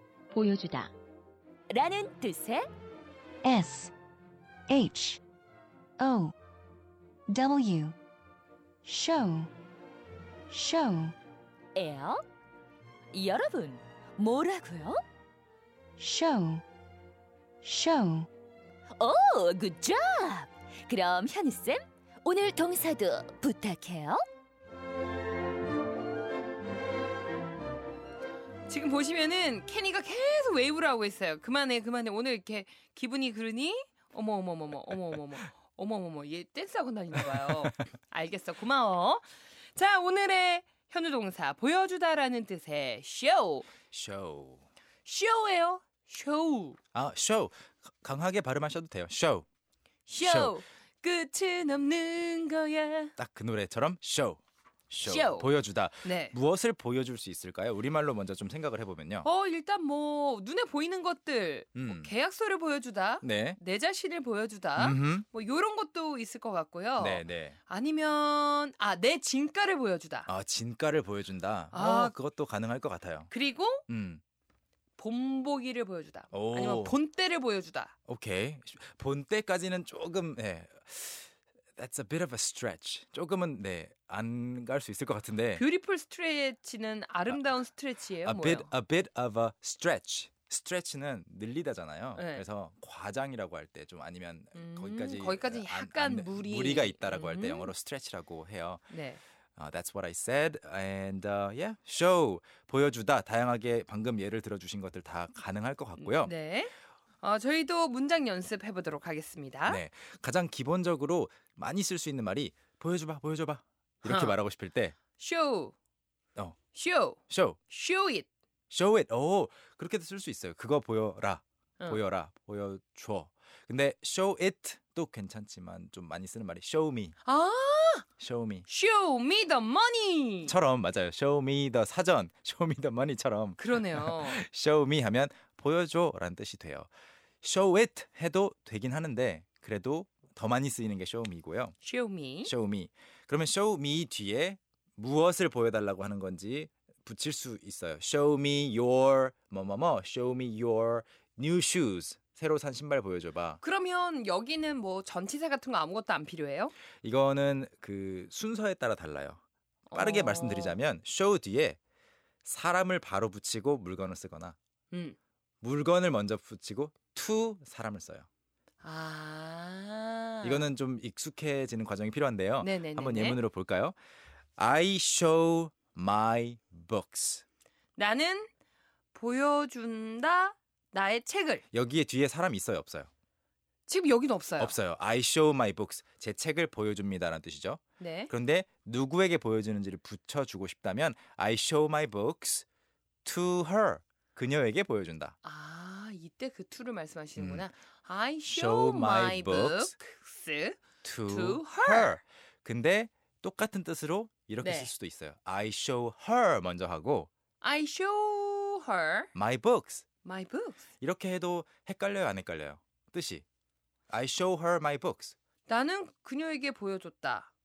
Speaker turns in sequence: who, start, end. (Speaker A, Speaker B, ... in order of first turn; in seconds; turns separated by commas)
Speaker A: 0.3-0.8, Speaker B: 1.7-2.6, Speaker A: 3.4-3.9, Speaker A: 4.7-5.2, Speaker A: 6.0-6.3, Speaker A: 7.3-8.0, Speaker A: 8.8-9.5, Speaker A: 10.5-11.2, Speaker B: 11.8-12.2, Speaker B: 13.1-15.0, Speaker A: 16.0-16.6, Speaker A: 17.6-18.3, Speaker B: 19.0-24.2, Speaker C: 28.7-43.7, Speaker D: 43.9-44.6, Speaker C: 45.0-46.8, Speaker D: 46.9-49.5, Speaker C: 50.1-53.1, Speaker D: 50.2-50.6, Speaker D: 53.2-59.3, Speaker C: 55.0-55.5, Speaker C: 56.0-56.4, Speaker C: 59.2-70.3, Speaker D: 61.8-62.1, Speaker D: 63.2-63.6, Speaker D: 64.8-65.3, Speaker D: 67.0-67.6, Speaker D: 70.3-73.3, Speaker C: 71.7-72.2, Speaker C: 73.3-73.8, Speaker D: 73.9-74.2, Speaker C: 75.0-77.9, Speaker D: 76.3-77.0, Speaker D: 78.1-85.6, Speaker C: 85.6-88.7, Speaker D: 88.2-98.9, Speaker C: 92.2-92.4, Speaker C: 94.5-97.7, Speaker C: 98.9-99.2, Speaker D: 99.6-106.3, Speaker C: 106.0-109.8, Speaker D: 109.7-115.0, Speaker C: 114.0-114.4, Speaker C: 115.2-115.8, Speaker C: 116.7-118.3, Speaker D: 117.3-117.6, Speaker D: 118.7-127.2, Speaker C: 127.2-128.1, Speaker D: 128.2-128.7, Speaker C: 128.7-130.5, Speaker D: 130.4-136.9, Speaker C: 133.6-134.4, Speaker D: 137.4-141.8, Speaker C: 141.8-142.5, Speaker D: 142.4-153.6, Speaker C: 153.6-156.7, Speaker D: 157.0-159.4, Speaker C: 159.9-160.8, Speaker D: 159.9-161.8, Speaker D: 162.4-164.6, Speaker C: 164.9-165.2, Speaker D: 165.6-168.3, Speaker C: 168.8-170.7, Speaker D: 170.4-173.9, Speaker C: 172.6-173.4, Speaker D: 174.6-177.4, Speaker C: 178.0-178.5, Speaker C: 179.1-181.6, Speaker D: 181.7-183.1, Speaker C: 183.9-184.8, Speaker D: 184.6-192.7, Speaker C: 188.0-188.3, Speaker D: 193.2-195.3, Speaker C: 195.4-202.2, Speaker D: 197.4-197.7, Speaker D: 198.5-199.9, Speaker D: 201.0-207.3, Speaker C: 204.6-204.9, Speaker C: 207.6-209.3, Speaker D: 209.3-210.1, Speaker C: 210.2-210.8, Speaker D: 211.0-213.4, Speaker D: 214.1-215.3, Speaker C: 215.7-217.5